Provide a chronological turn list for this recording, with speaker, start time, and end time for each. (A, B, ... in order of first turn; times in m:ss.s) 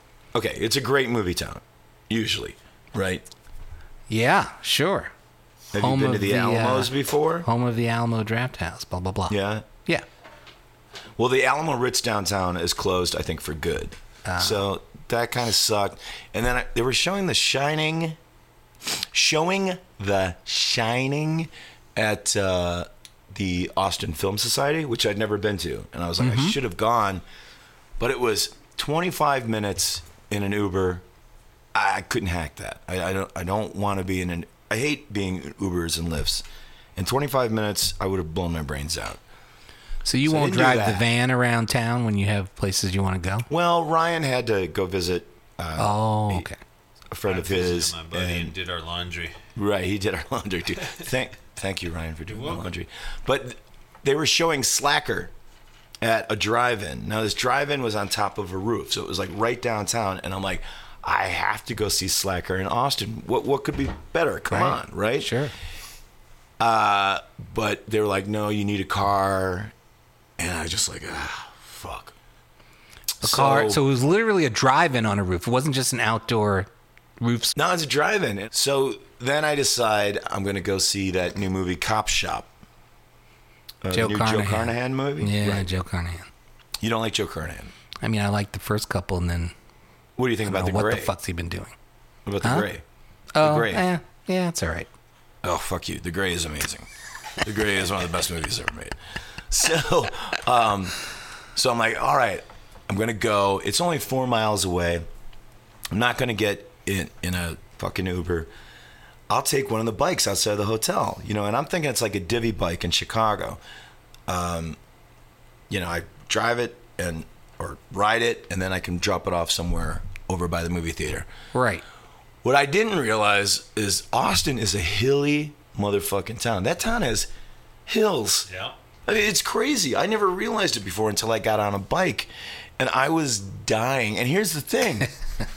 0:00.3-0:03.2 A
0:04.1-0:05.1 B
0:05.7-0:07.5 A
0:05.8-0:10.0 B
0:09.3-0:09.7 A
0:11.2-0:18.2 A
0:14.3-0:14.6 B
0:19.1-0:27.2 A
0:26.2-0:26.6 B
0:28.0-0:31.0 A
0:31.7-0:36.4 A
0:37.0-0:39.2 A
0:40.0-0:43.5 B
0:40.2-0:41.1 A
0:43.5-0:46.5 A
0:45.8-0:46.6 B
0:47.1-0:48.6 A
0:47.3-0:49.4 C
0:49.6-0:55.3 A
0:52.3-0:52.7 C
0:56.0-1:05.3 A
1:04.5-1:05.5 B
1:06.6-1:09.7 A
1:10.4-1:12.1 A
1:13.2-1:13.8 A
1:13.2-1:16.7 B
1:17.2-1:17.6 B
1:17.6-1:22.5 A
1:23.8-1:25.7 A
1:23.9-1:26.3 B
1:26.8-1:27.7 A
1:28.0-1:29.5 B
1:30.2-1:31.1 A
1:30.5-1:31.7 B
1:32.3-1:32.8 A
1:33.3-1:34.9 B
1:33.4-1:33.8 A
1:35.4-1:36.9 A
1:37.4-1:39.0 A
1:39.5-1:41.0 A
1:41.6-1:45.0 A
1:45.9-1:48.5 A
1:49.3-1:53.6 A
1:54.3-1:54.8 A
1:55.7-2:01.3 A
2:01.5-2:01.8 B
2:02.4-2:07.3 A
2:07.9-2:08.5 A
2:08.5-2:08.8 C
2:09.1-2:15.1 A